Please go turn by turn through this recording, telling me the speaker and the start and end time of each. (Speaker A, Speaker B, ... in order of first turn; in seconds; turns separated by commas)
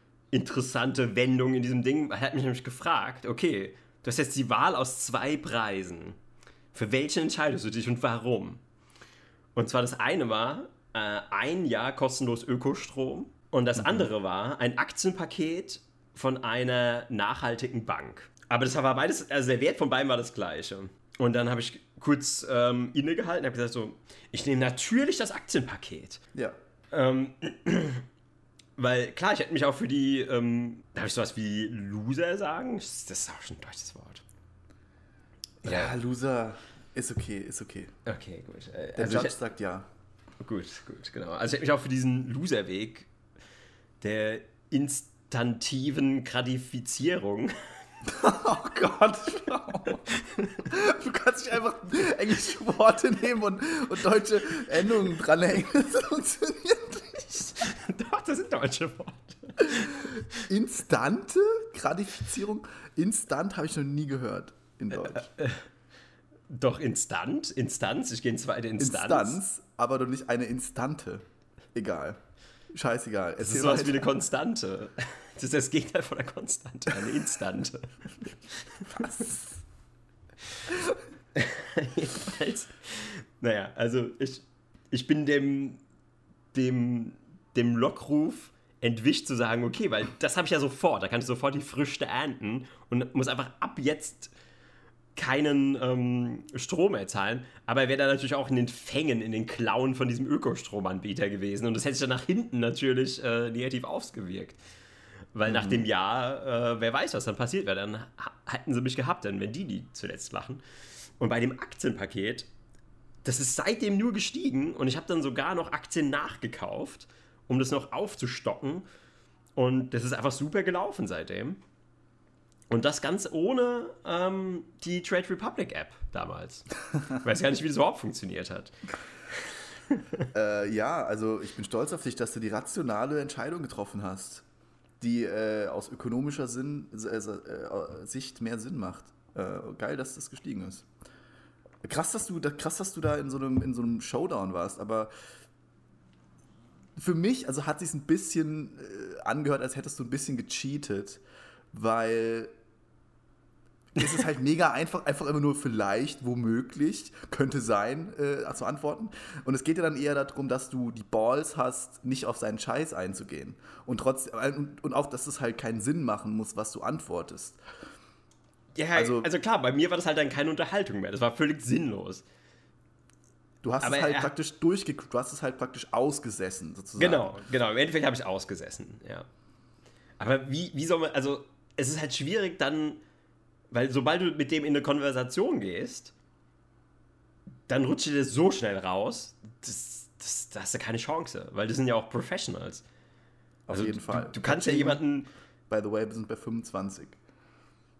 Speaker A: 0.3-6.2, Speaker A: 6.7-8.6, Speaker A: 9.6-26.2, Speaker B: 13.8-14.1, Speaker A: 26.9-28.1, Speaker A: 28.8-34.2, Speaker B: 35.6-37.9, Speaker A: 35.6-35.9, Speaker A: 38.1-39.4, Speaker B: 39.0-39.9, Speaker A: 40.4-43.1, Speaker A: 44.0-47.5, Speaker B: 48.0-50.1, Speaker A: 50.1-50.6, Speaker B: 50.6-57.6, Speaker A: 57.5-60.5, Speaker B: 59.7-65.3, Speaker A: 65.0-65.7, Speaker A: 66.5-69.4, Speaker B: 68.8-71.2, Speaker B: 71.7-72.2, Speaker B: 72.7-74.2, Speaker A: 73.4-79.2, Speaker B: 78.9-79.6, Speaker A: 81.3-85.8, Speaker A: 86.5-94.3, Speaker A: 95.2-104.6, Speaker A: 105.3-110.6, Speaker B: 105.5-105.9, Speaker A: 111.2-112.5, Speaker A: 113.2-118.8, Speaker A: 119.6-121.6, Speaker A: 122.7-128.8, Speaker A: 129.9-130.2, Speaker B: 130.3-134.5, Speaker B: 135.0-140.9, Speaker B: 141.8-145.1, Speaker B: 147.0-152.5, Speaker B: 153.9-167.6, Speaker A: 168.8-172.2, Speaker B: 168.9-169.3, Speaker B: 173.6-177.3, Speaker A: 173.8-174.3, Speaker A: 177.0-179.3, Speaker A: 180.2-183.0, Speaker A: 183.7-186.1, Speaker A: 187.7-192.8, Speaker B: 193.7-195.0, Speaker A: 193.7-195.3, Speaker B: 195.7-197.2